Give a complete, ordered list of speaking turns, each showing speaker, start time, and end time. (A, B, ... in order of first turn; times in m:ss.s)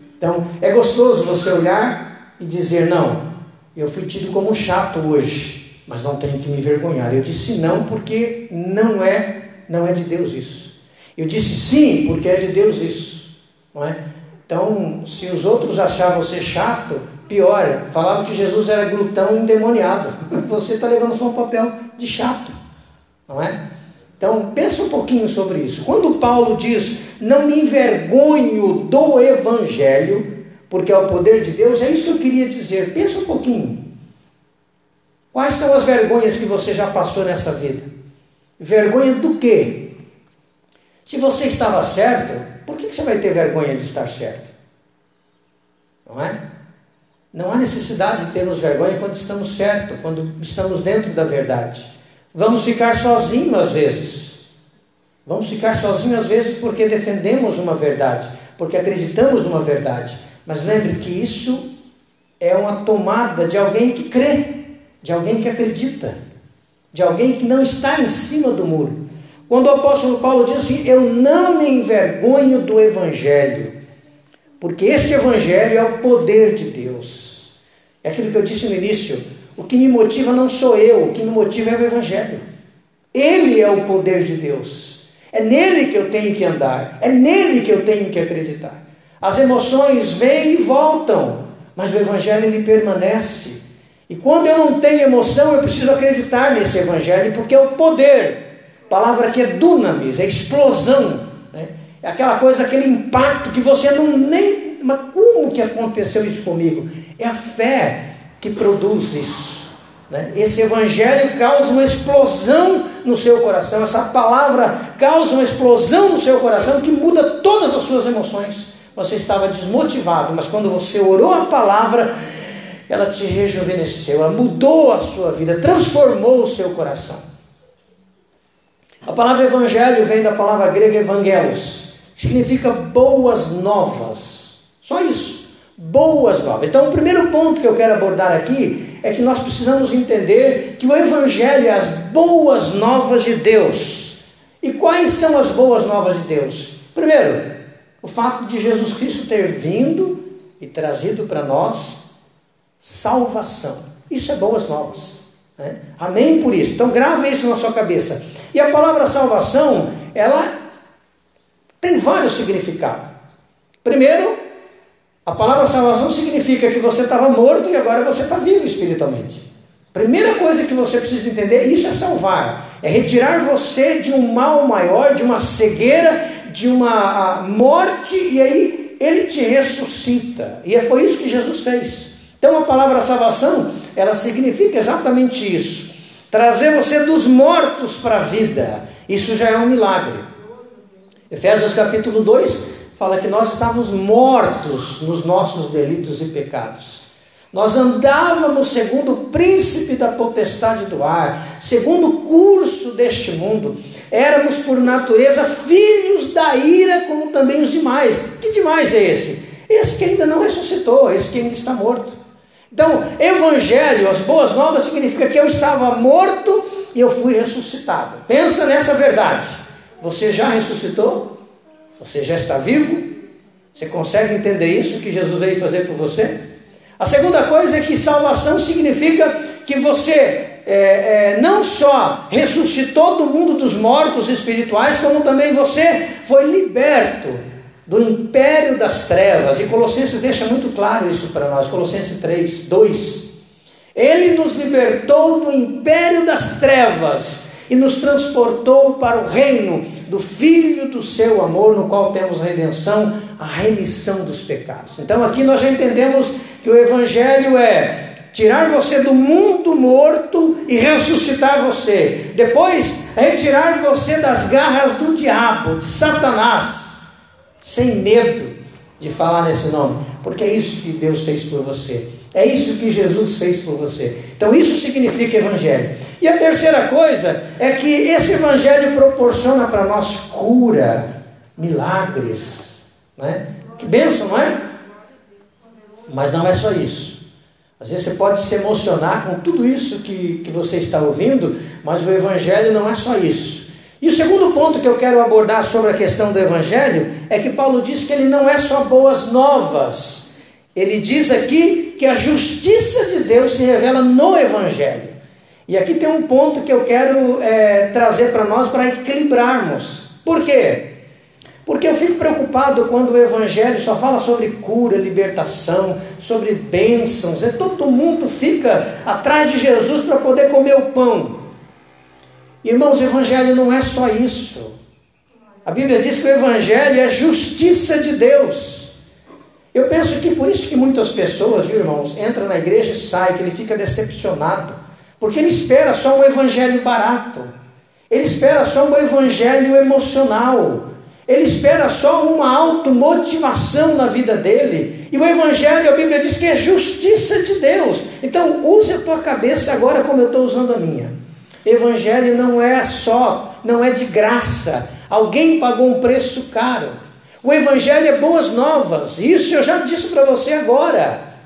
0:00.2-0:22.6 A
0:23.3-0:23.6 A
0:24.2-0:33.9 A
0:35.3-0:37.9 A
0:38.6-0:39.9 A
0:41.0-0:44.5 A
0:46.1-0:46.4 A
0:47.3-0:54.4 A
0:55.3-1:01.7 A
1:02.4-1:06.2 A
1:06.9-1:13.7 A
1:14.6-1:22.4 A
1:23.1-2:02.1 A
2:02.9-2:07.2 A
2:09.1-2:32.0 A
2:32.8-2:40.6 A
2:41.8-2:43.1 A
2:43.8-2:44.4 A
2:45.2-3:10.3 A
3:11.3-3:32.2 A
3:32.7-3:41.4 A
3:42.0-3:43.1 A
3:43.7-3:46.4 A
3:47.0-4:03.3 A
4:04.0-4:27.0 A
4:27.6-4:44.6 A
4:46.1-4:47.2 A
4:47.8-5:05.2 A
5:05.7-5:10.9 A
5:11.6-5:21.4 A
5:22.6-5:24.8 A
5:25.6-5:28.9 A
5:29.7-5:37.5 A
5:38.1-5:51.1 A
5:51.6-6:01.2 A